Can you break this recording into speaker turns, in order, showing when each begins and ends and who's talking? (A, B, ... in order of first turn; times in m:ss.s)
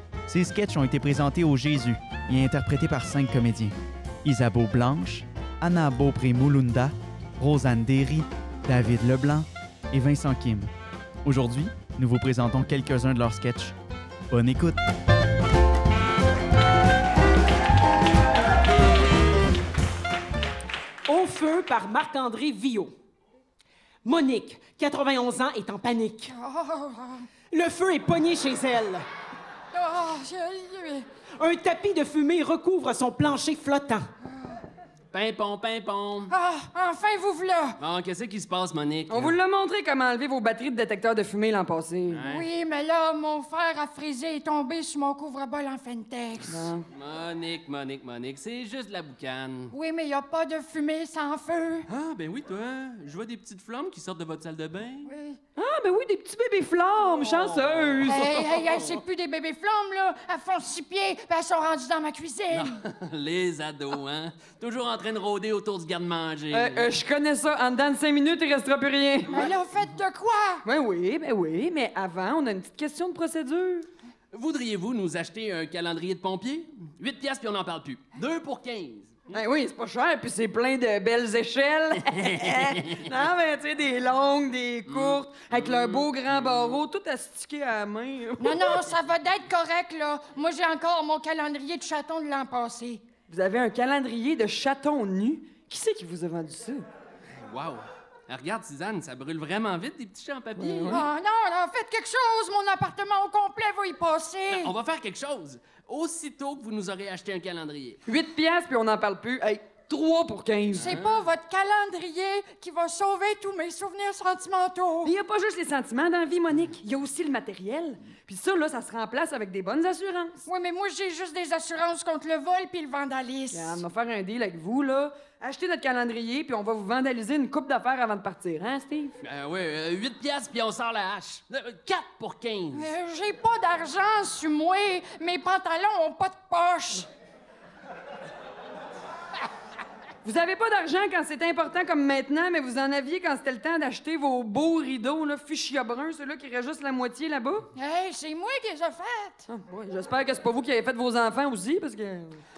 0:00.3-0:10.7 A
0:11.2-0:13.8 A
0:14.3-0:14.8 A
0:21.1-0:22.9 B
0:24.0-0:26.3 B
0:26.3-0:27.3 C
0:27.5-0:29.0 B
0:29.7-0:31.0 C
0:31.4-0:34.1 B
0:35.1-0:36.3 D
0:36.3-0:37.8 C
0:37.8-0:39.4 D
0:39.1-0:42.3 E
0:42.1-0:42.5 D
0:42.3-0:46.7 C
0:46.5-0:46.8 E
0:46.9-0:49.7 D
0:49.7-0:51.9 C
0:51.9-0:55.1 D
0:55.1-0:55.4 C
0:55.6-0:59.0 E
0:57.0-0:58.1 D
0:58.0-1:02.8 C
1:02.5-1:06.9 D
1:06.5-1:09.5 E
1:09.3-1:10.6 C
1:10.6-1:13.9 E
1:14.3-1:19.3 D
1:19.3-1:28.9 E
1:22.2-1:23.1 D
1:24.9-1:26.8 D
1:28.4-1:33.0 C
1:33.3-1:36.9 E
1:37.4-1:41.0 D
1:40.6-1:41.0 E
1:40.9-1:44.8 C
1:44.5-1:48.0 D
1:48.1-1:51.0 E
1:50.7-1:51.2 D
1:50.7-1:55.1 C
1:55.0-2:00.4 E
2:00.4-2:03.8 C
2:03.5-2:09.1 E
2:09.2-2:12.9 D
2:12.7-2:17.1 C
2:20.2-2:27.7 E
2:27.8-2:29.5 C
2:29.5-2:32.4 E